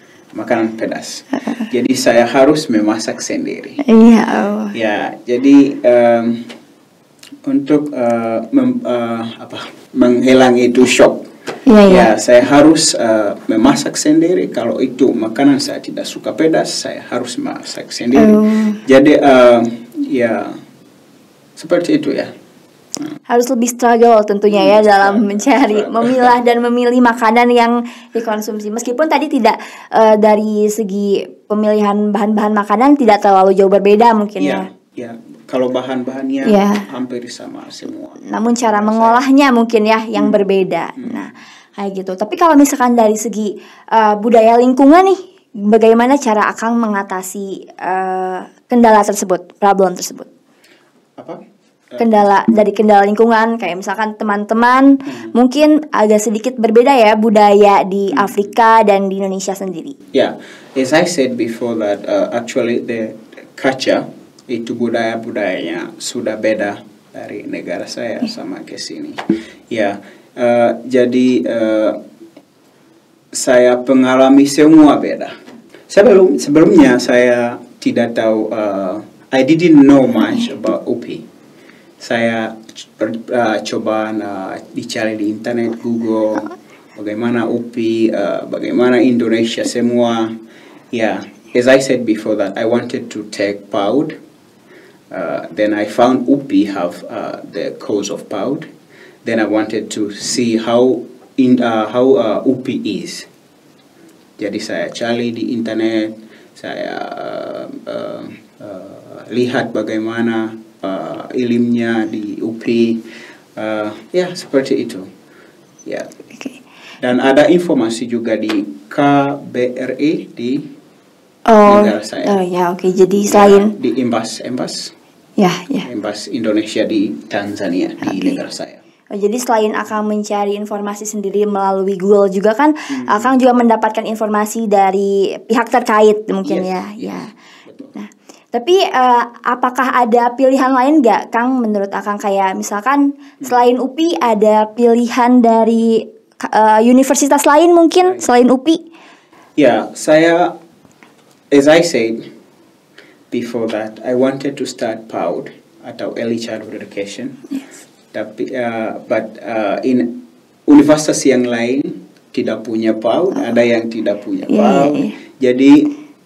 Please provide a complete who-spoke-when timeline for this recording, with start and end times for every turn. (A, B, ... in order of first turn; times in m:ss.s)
0:00.3-0:03.8 A
0:03.8-0:04.7 B
0:04.7-0:06.5 A
0:07.4-0:11.2 A
0:11.7-0:12.1 B
0:11.9-0:20.6 A
0:18.1-0:18.8 B
0:21.6-0:22.3 A
0:23.3-0:34.6 B
0:24.5-0:26.3 A
0:34.4-0:39.3 A
0:36.4-0:36.8 B
0:38.3-0:50.3 B
0:40.2-0:40.4 A
0:41.0-0:41.2 A
0:51.9-0:52.3 A
0:52.0-1:00.0 B
0:55.0-0:55.3 A
0:58.1-0:58.4 A
1:00.1-1:12.0 A
1:13.3-1:15.3 A
1:15.9-1:21.2 A
1:22.0-1:30.3 A
1:30.9-1:34.2 A
1:35.1-1:38.7 A
1:39.2-1:43.3 A
1:44.4-1:53.0 A
1:53.6-1:55.1 A
1:57.0-2:00.6 A
2:01.5-2:03.7 B
2:01.6-2:02.4 A
2:03.3-2:04.9 A
2:05.4-2:05.9 B
2:05.8-2:08.8 A
2:08.0-2:08.4 B
2:09.1-2:17.3 B
2:12.9-2:13.3 A
2:16.4-2:17.9 A
2:17.9-2:28.8 B
2:29.6-2:30.5 A
2:31.5-2:32.2 A
2:33.3-2:37.4 A
2:38.1-2:45.9 A
2:44.4-2:45.2 B